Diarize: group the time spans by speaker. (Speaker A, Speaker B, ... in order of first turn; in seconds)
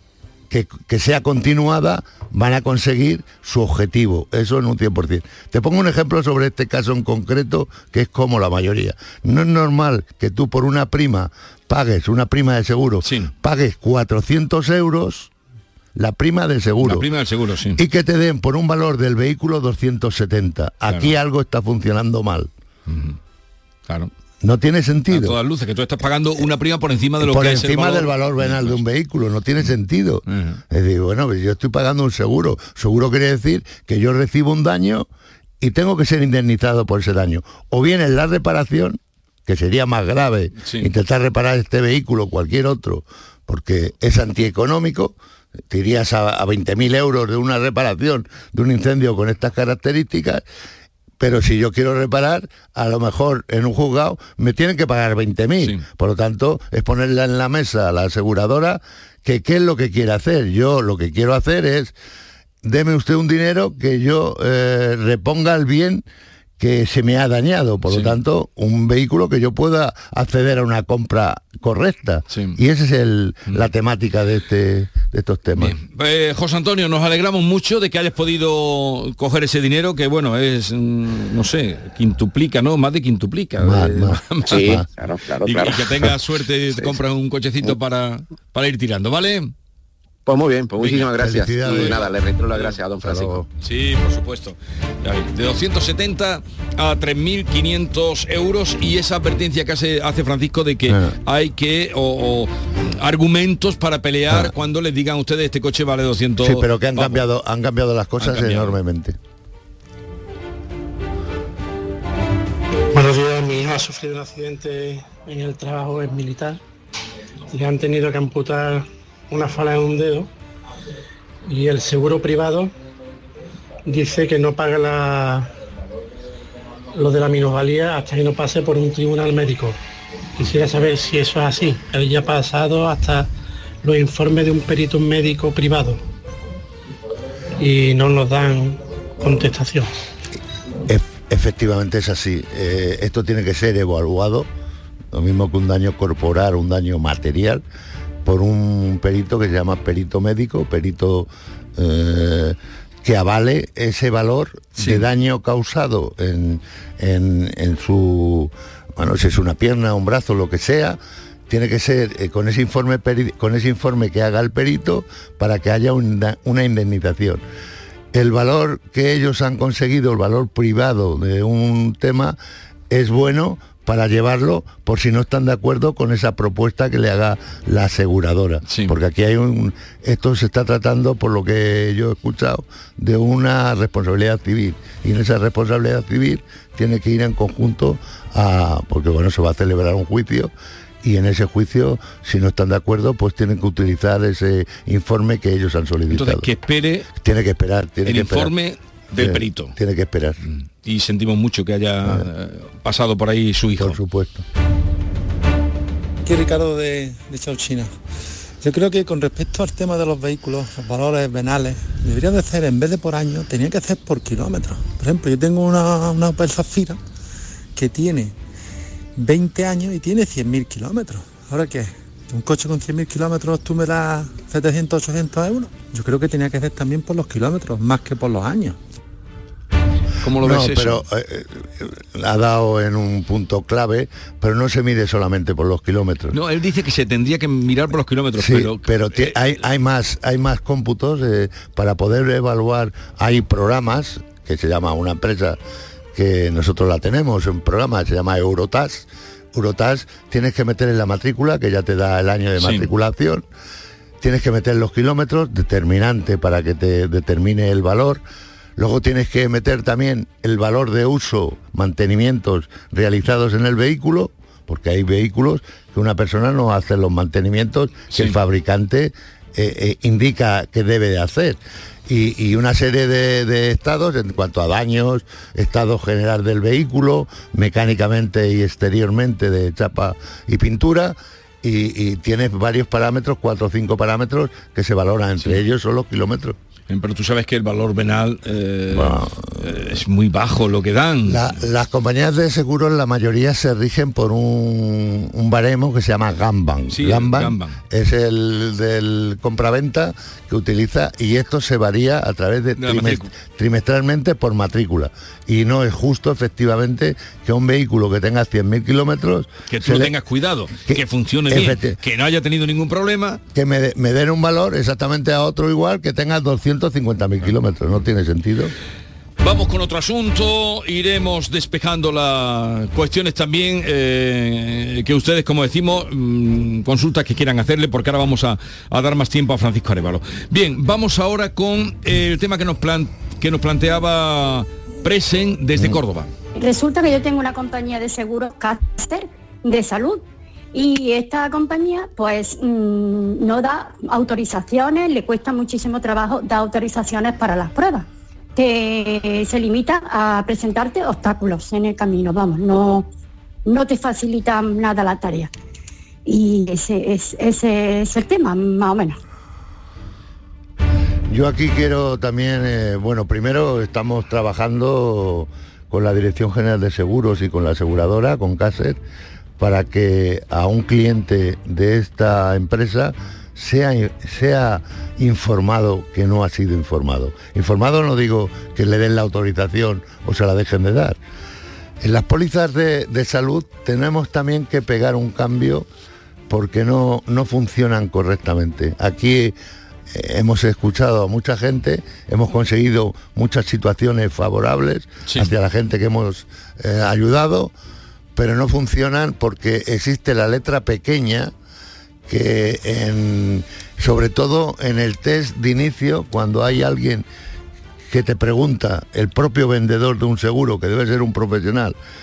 Speaker A: 0.5-15.3, 15.9-17.1, 17.8-22.5, 24.4-25.4, 27.2-35.1, 35.6-45.1, 45.7-50.4, 51.2-61.9, 62.6-66.0, 66.6-75.7, 83.5-84.9, 91.2-92.0, 93.0-93.5, 100.9-101.2, 106.4-109.2, 140.9-144.5, 145.1-147.6, 148.2-167.4, 168.1-172.4, 172.9-190.5, 191.0-196.5, 197.1-198.5, 199.2-200.4, 203.8-204.4, 230.4-236.3, 238.3-245.6, 246.1-253.4, 254.2-258.2, 258.8-286.6, 288.9-289.6, 291.2-310.1, 310.9-312.0, 313.5-318.7, 361.3-369.0, 369.6-381.2, 382.0-385.9, 386.5-389.5, 390.1-397.7, 398.3-401.5, 402.3-407.2, 408.1-411.9
Speaker B: 13.0-13.3, 16.8-17.8, 20.9-21.1, 22.9-23.2, 25.1-28.8, 30.3-30.6, 40.6-40.9, 67.9-68.1, 72.3-72.6, 75.6-84.8, 85.4-89.5, 90.8-92.8, 93.6-107.2, 108.2-108.8, 154.7-155.0, 178.7-178.9, 196.1-197.1, 198.0-199.7, 200.4-204.0, 230.2-231.0, 236.3-239.6, 252.6-252.9, 268.1-268.4, 286.9-291.6, 296.9-297.8, 302.8-303.3, 309.7-313.4, 319.4-336.3
Speaker C: 84.5-86.1, 90.2-93.4
Speaker D: 112.9-116.6, 117.5-120.3, 121.5-122.7, 123.8-125.5, 126.9-129.8, 130.4-133.3, 133.8-136.0, 137.6-139.9
Speaker E: 206.2-207.9, 208.6-217.0, 217.8-218.3, 219.2-228.8
Speaker F: 336.6-340.2, 340.7-353.1, 353.6-355.5, 356.2-359.2